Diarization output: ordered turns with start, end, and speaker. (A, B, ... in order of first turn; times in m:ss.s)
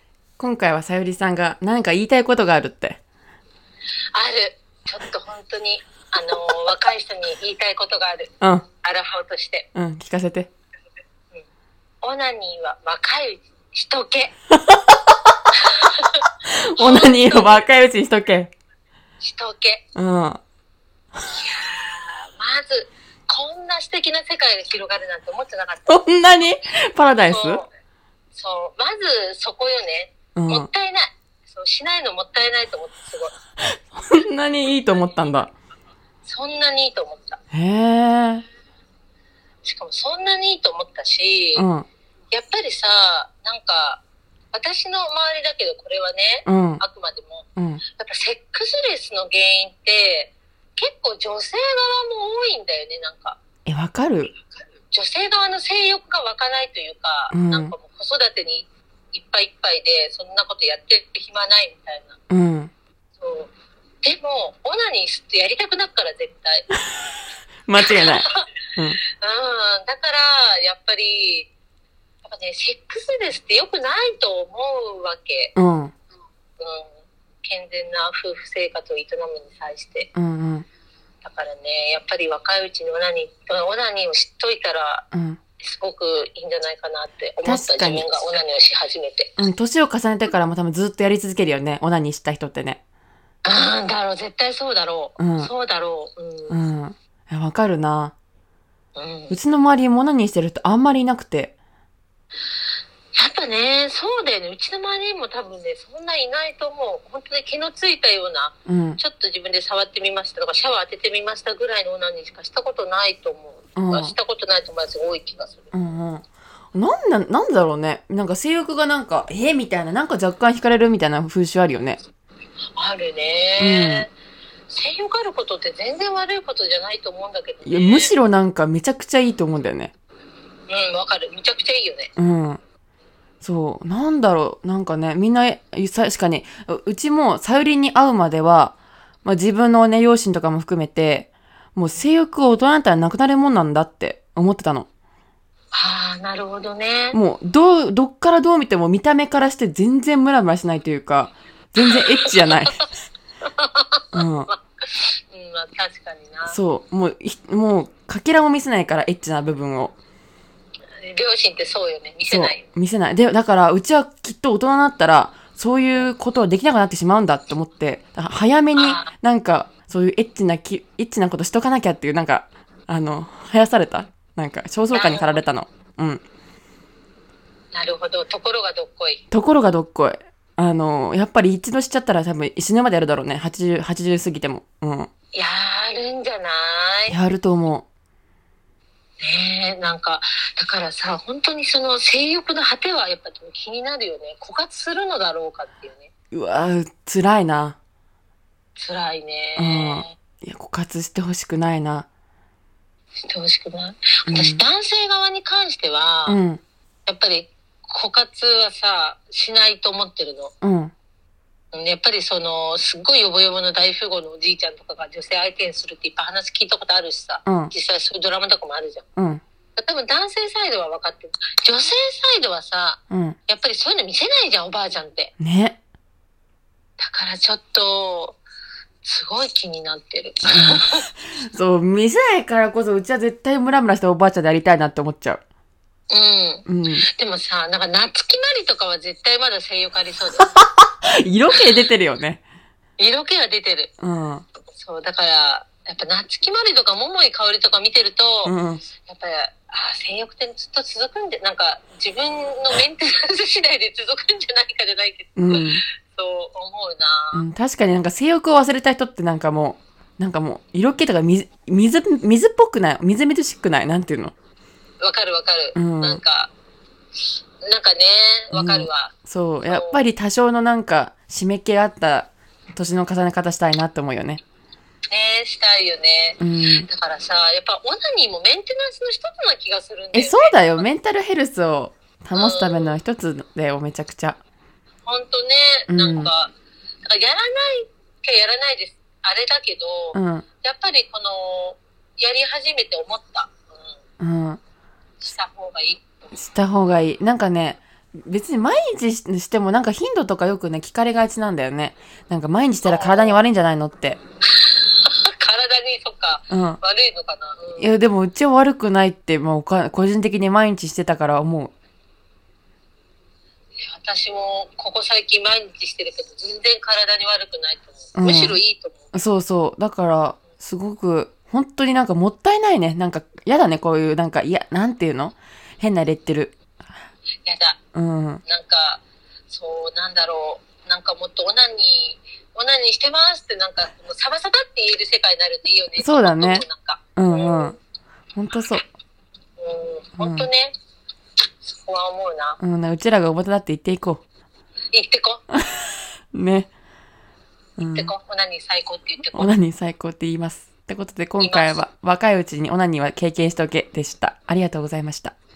0:00.4-0:03.0 A
0:04.1-0:09.7 B
0:08.4-0:08.6 A
0:09.7-0:10.5 A
0:12.0-0:14.3 B
0:14.5-0:15.0 A
0:15.6-0:16.1 B
0:16.4-0:18.5 A
0:16.8-0:17.6 B
0:19.2-0:19.8 B
0:19.9-0:20.4 A
0:21.3-0:26.0 B
0:25.8-0:27.6 A
0:27.3-0:27.7 B
0:28.3-0:33.3 B
0:30.3-0:30.7 A
0:33.9-0:35.5 A
0:36.2-0:37.4 B
0:37.5-0:38.4 A
0:39.6-0:41.6 B
0:41.5-0:41.9 A
0:42.3-0:44.0 B
0:44.5-0:53.4 B
0:46.4-0:46.8 A
0:47.6-0:47.8 A
0:53.6-0:54.3 A
0:54.9-1:02.2 B
0:57.3-0:57.7 A
1:02.3-1:02.7 A
1:03.2-1:06.6 B
1:07.7-1:09.0 A
1:07.8-1:08.4 B
1:09.2-1:11.5 B
1:12.2-1:15.5 B
1:15.5-1:15.9 A
1:16.6-1:20.1 B
1:20.1-1:20.7 A
1:21.2-1:25.0 B
1:25.1-1:25.4 A
1:25.6-1:29.3 B
1:27.4-1:28.1 A
1:29.4-1:32.8 A
1:33.4-1:36.6 B
1:35.2-1:35.5 A
1:36.5-1:38.1 A
1:39.0-1:39.4 B
1:39.3-1:41.5 A
1:43.1-1:55.7 B
1:48.6-1:49.0 A
1:53.8-1:54.1 A
1:55.7-2:02.0 A
2:02.8-2:04.1 B
2:03.6-2:04.1 A
2:04.7-2:08.1 B
2:07.6-2:09.9 A
2:10.7-2:12.1 B
2:12.2-2:12.6 A
2:13.4-2:24.9 A
2:25.7-2:27.2 B
2:27.1-2:32.8 A
2:31.8-2:32.5 B
2:33.4-2:36.6 B
2:34.1-2:34.5 A
2:36.5-2:39.9 A
2:41.0-2:42.6 B
2:42.3-2:56.2 A
2:48.7-2:49.1 B
2:54.9-2:55.4 B
2:57.7-2:59.2 B
2:59.3-3:05.1 A
3:05.3-3:07.1 B
3:07.1-3:07.8 A
3:09.2-3:16.1 B
3:16.3-3:17.8 A
3:18.8-3:20.1 B
3:19.6-3:22.1 A
3:23.3-3:26.4 B
3:24.3-3:24.6 A
3:26.2-3:26.6 A
3:27.1-3:30.5 B
3:30.6-3:30.9 A
3:31.7-3:39.0 B
3:37.4-3:37.7 A
3:39.2-3:39.4 A
3:39.8-3:45.3 B
3:43.1-3:43.4 A
3:45.4-3:45.8 A
3:47.0-3:48.4 B
3:49.0-3:51.1 B
3:50.5-3:55.4 A
3:56.1-4:00.5 B
3:56.6-3:57.0 A
4:00.4-4:02.4 A
4:03.0-4:03.9 B
4:04.0-4:04.4 A
4:04.7-4:17.4 B
4:08.4-4:08.8 A
4:15.4-4:15.8 A
4:17.3-4:24.3 A
4:25.0-4:26.5 B
4:25.7-4:26.2 A
4:27.6-4:29.1 B
4:28.5-4:34.4 A
4:29.6-4:30.0 B
4:35.1-4:40.8 B
4:36.4-4:36.9 A
4:40.1-4:44.4 A
4:42.3-4:43.0 B
4:45.0-4:46.5 B
4:45.9-4:46.3 A
4:47.0-4:54.0 B
4:50.1-4:50.4 A
4:54.2-4:54.6 A
4:55.2-4:56.0 B
4:56.3-5:04.2 A
5:02.8-5:03.4 B
5:04.6-5:07.9 B
5:06.5-5:06.8 A
5:07.8-5:11.7 A
5:13.8-5:19.2 B
5:18.2-5:18.6 A
5:19.1-5:26.6 A
5:27.4-5:27.8 B
5:27.9-5:28.4 A
5:28.4-5:37.8 B
5:36.0-5:36.6 A
5:37.2-5:37.8 A
5:38.4-5:38.8 A
5:39.6-5:40.7 B
5:40.2-5:40.5 A
5:41.6-5:42.6 B
5:42.6-5:44.2 A
5:44.9-5:45.4 B
5:46.3-5:46.7 A
5:47.8-5:48.1 A
5:47.8-5:49.5 B
5:49.3-5:55.3 A
5:51.4-5:51.8 B